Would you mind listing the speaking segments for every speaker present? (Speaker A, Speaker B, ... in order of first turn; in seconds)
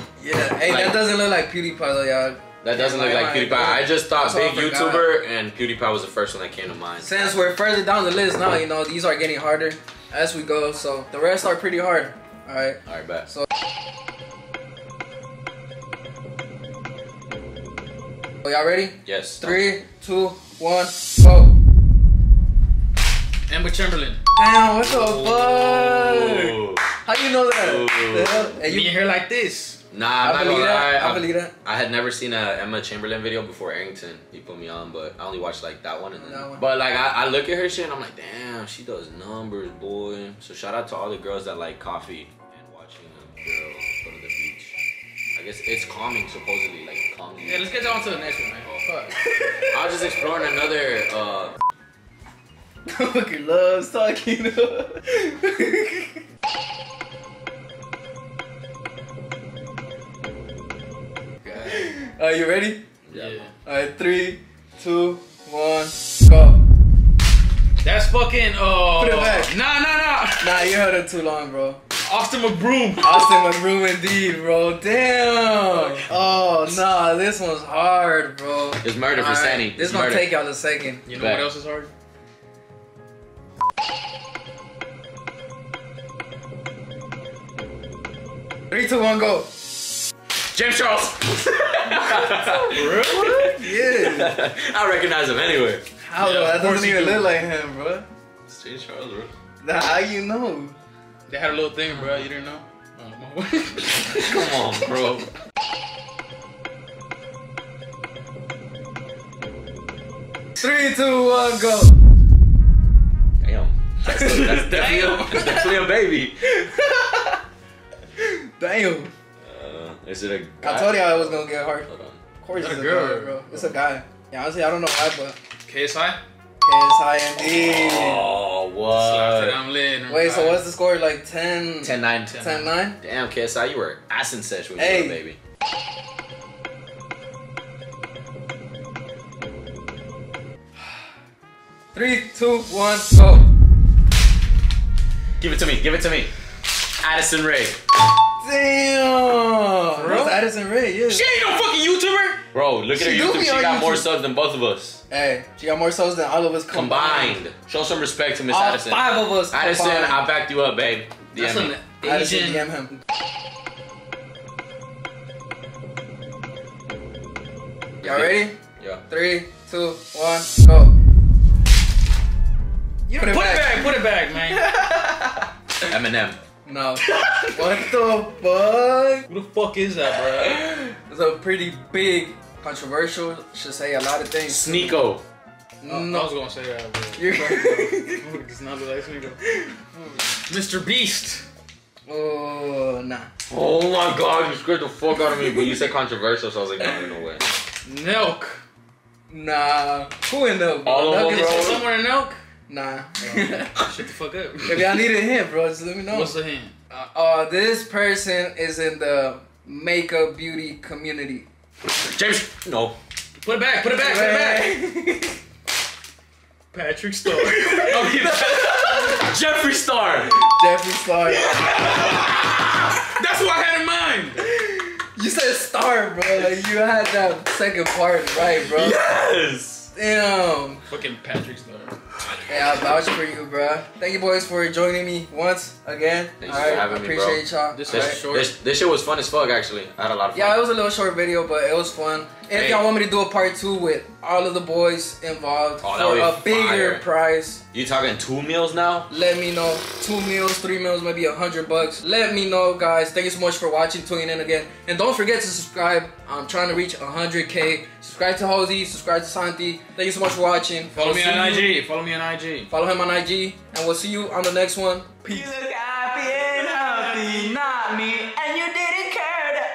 Speaker A: 0.2-5.1, 7.0-13.5, 18.4-21.6, 24.4-28.9, 30.2-31.5, 36.1-36.6, 49.1-49.9, 52.9-56.2, 61.5-62.8, 63.6-66.6, 69.0-69.5, 70.4-71.8, 73.0-81.0, 88.7-89.5, 92.1-94.4, 96.0-98.0, 99.6-100.8, 110.6-111.9, 114.0-115.8, 116.4-117.4, 118.2-119.1, 120.6-121.9, 122.4-125.4, 126.6-128.3, 130.1-133.0, 134.8-135.2, 141.9-143.5, 148.4-151.3, 152.9-154.1, 155.1-157.4, 158.5-160.2, 162.0-162.9, 168.0-170.9, 173.2-173.9, 174.5-175.5, 176.6-179.2, 180.4-185.0, 185.8-186.3, 187.2-188.3, 189.4-190.2, 192.1-193.3, 195.3-195.8, 199.3-201.8, 202.7-203.8, 204.7-206.4, 206.9-211.5, 213.8-215.4, 220.2-221.7, 224.4-229.0, 229.9-230.8, 232.5-238.2, 240.3-247.6, 249.1-261.8, 262.7-265.5, 266.2-268.5
Speaker B: 0.7-1.0, 2.6-7.3, 12.9-13.3, 19.0-19.6, 24.8-26.8, 27.6-28.4, 29.9-44.8, 45.4-48.8, 49.7-51.5, 63.1-63.4, 78.8-80.3, 81.1-81.5, 90.5-95.8, 98.5-99.3, 104.1-105.3, 113.4-116.4, 119.4-122.2, 127.4-129.6, 131.8-132.4, 133.0-135.4, 145.4-146.3, 147.0-147.8, 152.5-155.0, 156.7-161.7, 175.9-176.4, 184.5-185.2, 193.5-197.4, 200.8-201.9, 212.0-213.0, 217.5-220.4, 221.5-222.6, 228.5-229.9, 236.4-240.6, 242.5-242.9, 245.8-247.0, 247.7-249.1, 265.3-267.8
Speaker C: 23.5-24.2, 28.6-29.8, 47.5-49.1, 63.1-63.5, 67.8-70.7, 72.0-73.2, 81.0-81.9, 92.7-93.4, 96.2-97.4, 101.3-104.4, 115.0-115.3, 122.5-123.5, 125.7-126.2, 128.9-130.6, 132.3-132.7, 150.0-150.4, 151.1-152.4, 161.3-162.8, 173.1-174.7, 179.3-180.7, 185.8-189.4, 190.5-191.4, 197.8-198.6, 201.2-202.4, 203.2-205.1, 206.1-206.8, 213.4-214.8, 216.7-218.8, 221.4-224.5, 230.9-232.0, 237.8-238.5, 260.9-262.7